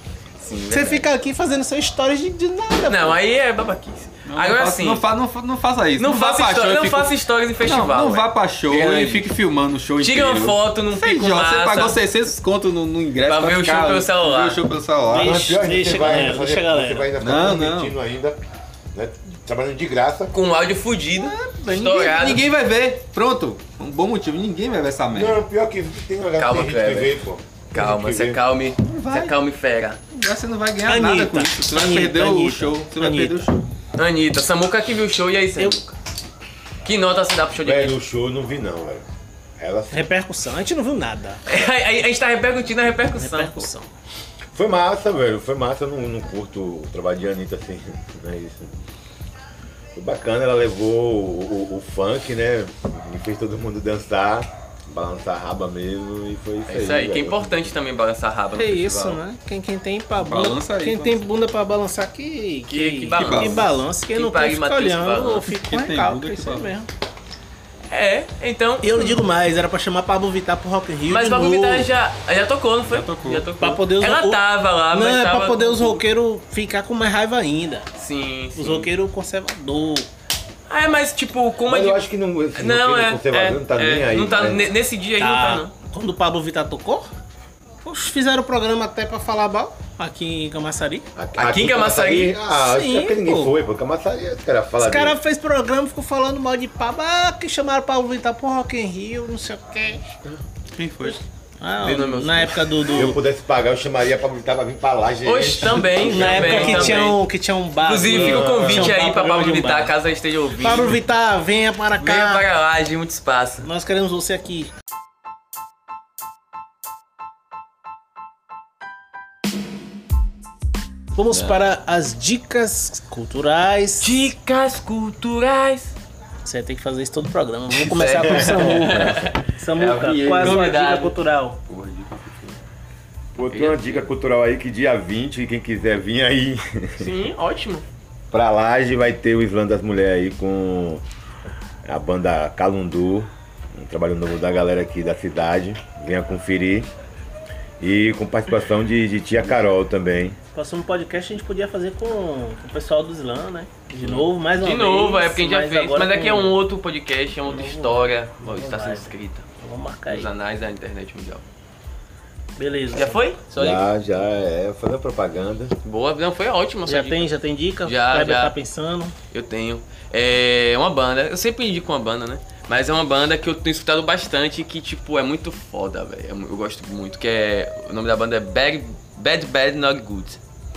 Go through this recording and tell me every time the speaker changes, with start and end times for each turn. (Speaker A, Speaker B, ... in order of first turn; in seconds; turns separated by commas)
Speaker A: 0.4-1.1, Speaker B: 0.7-3.2, Speaker A: 2.9-5.0, Speaker C: 4.2-15.5, Speaker A: 6.0-9.3, Speaker A: 10.0-12.0, Speaker A: 13.2-14.6, Speaker D: 15.1-18.4, Speaker B: 15.1-17.1, Speaker C: 17.2-17.9, Speaker D: 18.9-20.3, Speaker A: 20.3-22.4, Speaker B: 21.1-22.2, Speaker C: 22.0-25.4, Speaker D: 25.1-28.4, Speaker A: 26.4-27.1, Speaker A: 27.7-30.0, Speaker C: 28.9-29.4, Speaker C: 30.1-33.6, Speaker B: 30.9-33.5, Speaker A: 34.0-35.9, Speaker A: 36.8-37.9, Speaker D: 37.6-39.0, Speaker D: 39.6-40.1, Speaker B: 39.9-41.4, Speaker A: 41.5-43.7, Speaker B: 43.1-43.9, Speaker D: 44.5-48.7, Speaker D: 49.9-57.7, Speaker A: 56.7-59.2, Speaker B: 58.5-66.9, Speaker C: 60.2-61.3, Speaker A: 62.7-65.5, Speaker C: 63.1-63.7, Speaker C: 65.5-66.7, Speaker A: 67.9-69.2, Speaker B: 68.8-71.9, Speaker A: 71.1-76.0, Speaker C: 72.8-73.5, Speaker B: 73.6-77.9, Speaker A: 78.0-78.9, Speaker B: 78.5-80.1, Speaker A: 80.7-82.0, Speaker D: 81.7-84.7, Speaker A: 82.5-85.7, Speaker B: 85.2-87.1, Speaker B: 87.8-91.0, Speaker D: 91.2-95.2, Speaker A: 91.4-92.3, Speaker B: 92.5-93.5, Speaker B: 94.8-100.0, Speaker C: 100.7-101.2, Speaker B: 101.0-103.2, Speaker A: 101.8-103.0, Speaker D: 102.9-107.0, Speaker A: 105.2-107.2, Speaker B: 106.0-109.9, Speaker A: 107.8-111.0, Speaker D: 108.2-108.8, Speaker B: 110.6-112.4, Speaker A: 112.0-113.7, Speaker B: 113.6-114.7, Speaker B: 121.1-124.2, Speaker A: 121.3-121.6, Speaker A: 124.0-125.9, Speaker B: 126.4-131.6, Speaker A: 127.7-129.3, Speaker C: 129.0-130.9, Speaker A: 130.3-131.2, Speaker C: 131.7-132.6, Speaker D: 133.3-137.1, Speaker A: 133.4-134.1, Speaker A: 137.0-137.8, Speaker D: 138.3-141.0, Speaker D: 141.8-146.9, Speaker D: 147.8-150.4, Speaker B: 150.5-156.6, Speaker A: 154.0-159.5, Speaker B: 157.4-160.3, Speaker A: 160.1-161.4, Speaker B: 162.6-163.2, Speaker A: 162.9-163.8, Speaker D: 163.6-165.7, Speaker A: 165.8-167.3, Speaker B: 166.9-169.1, Speaker A: 167.8-168.5, Speaker A: 169.3-180.4